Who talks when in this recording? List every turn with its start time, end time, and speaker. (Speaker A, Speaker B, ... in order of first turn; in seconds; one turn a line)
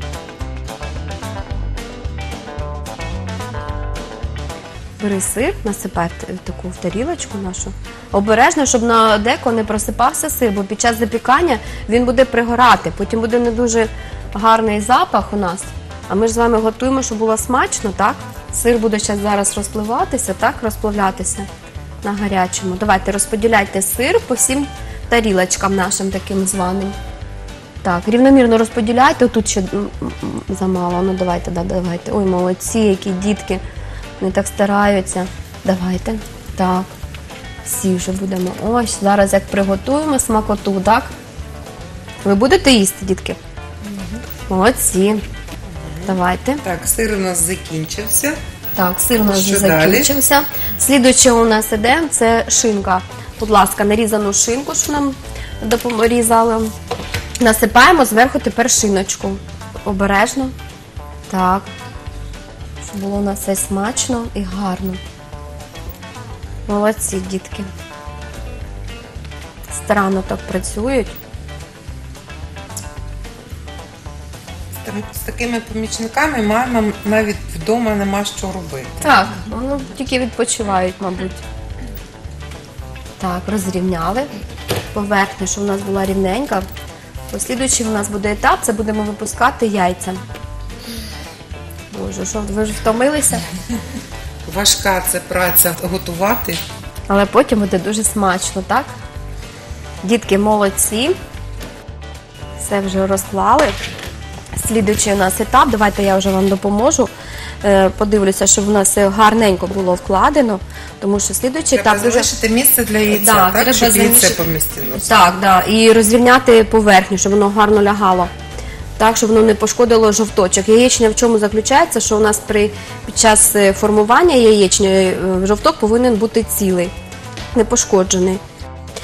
Speaker A: 5.0-21.5
Speaker A: 22.0-27.0
Speaker A: 27.8-33.6
Speaker A: 34.2-36.9
Speaker A: 37.6-41.1
Speaker A: 42.2-43.4
Speaker B: 43.9-44.2
Speaker A: 44.5-45.2
Speaker B: 45.7-48.4
Speaker A: 46.1-46.6
Speaker A: 48.8-56.7
Speaker B: 49.2-50.1
Speaker A: 57.4-60.5
Speaker A: 61.3-61.7
Speaker A: 62.8-65.0
Speaker A: 66.7-67.7
Speaker A: 69.7-71.2
Speaker B: 74.7-79.2
Speaker A: 79.0-81.4
Speaker A: 83.2-84.3
Speaker A: 84.9-86.7
Speaker A: 87.3-90.2
Speaker A: 91.9-93.5
Speaker B: 94.5-96.6
Speaker A: 97.1-98.9
Speaker A: 100.0-101.2
Speaker A: 102.6-103.8
Speaker A: 104.6-107.1
Speaker A: 107.6-112.3
Speaker B: 111.7-115.2
Speaker A: 113.1-114.4
Speaker A: 115.0-118.3
Speaker A: 119.0-126.9
Speaker A: 127.5-128.4